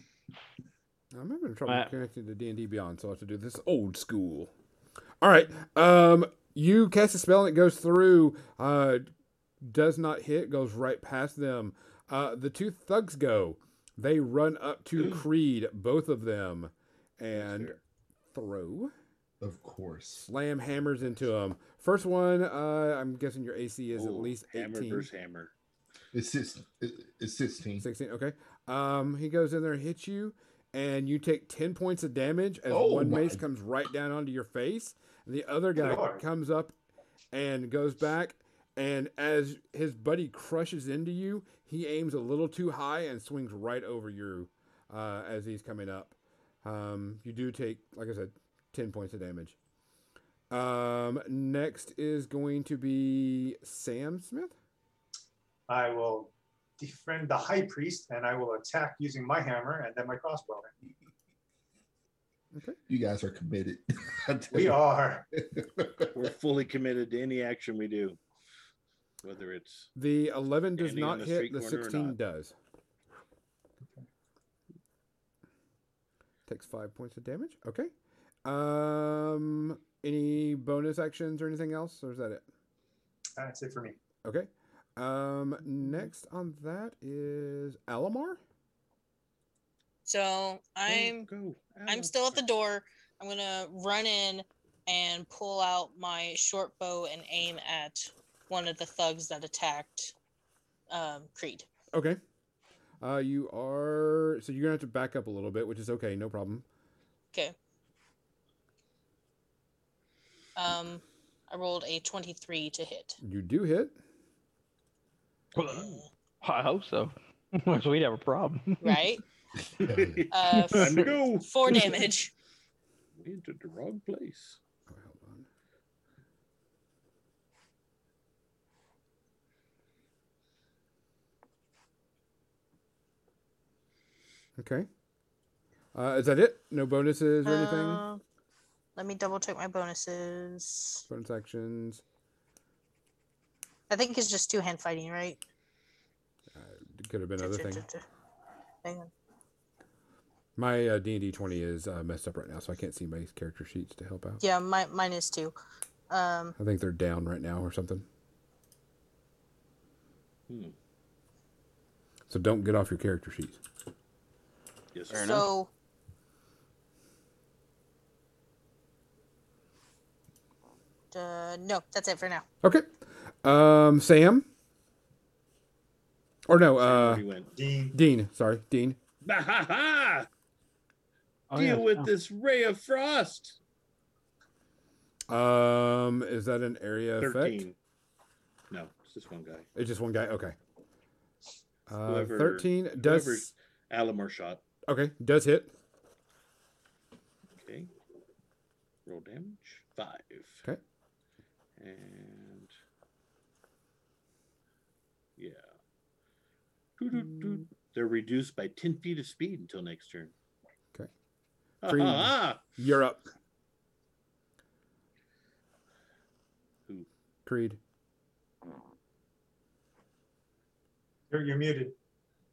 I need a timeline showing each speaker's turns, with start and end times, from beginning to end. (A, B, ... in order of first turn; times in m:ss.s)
0:01.1-0:04.5 A
0:01.7-0:01.9 B
0:05.2-0:09.1 A
0:09.6-0:17.7 A
0:15.0-0:15.2 C
0:17.3-0:17.8 C
0:18.3-0:18.9 A
0:19.4-0:20.3 D
0:20.2-0:25.1 A
0:23.9-0:25.5 C
0:26.1-0:27.8 D
0:27.8-0:36.7 A
0:32.7-0:33.4 D
0:35.8-0:36.2 E
0:37.3-0:49.6 A
0:50.5-0:54.5 A
0:55.7-1:00.7 E
1:02.9-1:06.2 D
1:04.5-1:05.3 E
1:06.1-1:08.2 C
1:09.2-1:09.9 C
1:09.9-1:12.5 A
1:10.8-1:12.2 C
1:16.5-1:17.9 A
1:18.4-1:22.4 A
1:23.4-1:24.0 E
1:24.2-1:28.4 A
1:30.0-1:31.3 F
1:30.9-1:32.4 C
1:31.9-1:40.1 F
1:40.9-1:41.7 F
1:41.9-1:42.2 A
1:43.0-1:46.6 A
1:50.6-1:53.2 F
1:53.2-1:54.0 A
1:55.5-1:59.0 B
1:55.6-1:56.1 F
1:58.8-1:59.2 F
1:59.7-2:00.2 D
1:59.8-2:02.1 C
2:00.3-2:02.3 F
2:00.5-2:01.1 B
2:03.2-2:04.6 C
2:04.9-2:05.4 A
2:14.6-2:14.9 A
2:15.9-2:18.0 A
2:17.4-2:18.2 F
2:19.0-2:21.0 F
2:21.1-2:22.0 A
2:23.9-2:25.4 F
2:26.5-2:27.8 A
2:27.4-2:28.0 F
2:28.8-2:29.1 F
2:30.6-2:34.4 A
2:34.4-2:35.5 F
2:36.1-2:36.5 F
2:36.6-2:38.0 A
2:40.5-2:40.7 C
2:42.3-2:43.6 A
2:44.9-2:45.4 C
2:45.1-2:45.5 B
2:45.1-2:45.7 F
2:51.1-2:52.4 F
2:52.6-2:52.9 A
2:53.4-2:54.5 A
2:56.5-2:57.2 A
2:56.8-2:57.5 C
2:57.5-2:58.0 E
2:57.9-2:59.0 A
2:59.2-3:00.3 C
3:01.5-3:02.1 B
3:01.5-3:03.6 C
3:05.3-3:07.6 A
3:07.2-3:07.8 C
3:08.7-3:09.7 C
3:09.8-3:10.6 A
3:11.9-3:13.5 A
3:12.0-3:14.6 C
3:14.9-3:15.7 A
3:17.6-3:17.9 C
3:19.0-3:20.6 C
3:21.8-3:22.7 C
3:25.4-3:25.6 C
3:27.0-3:30.3 C
3:31.8-3:32.6 C
3:31.8-3:33.3 A
3:37.4-3:37.8 A
3:41.3-3:41.9 E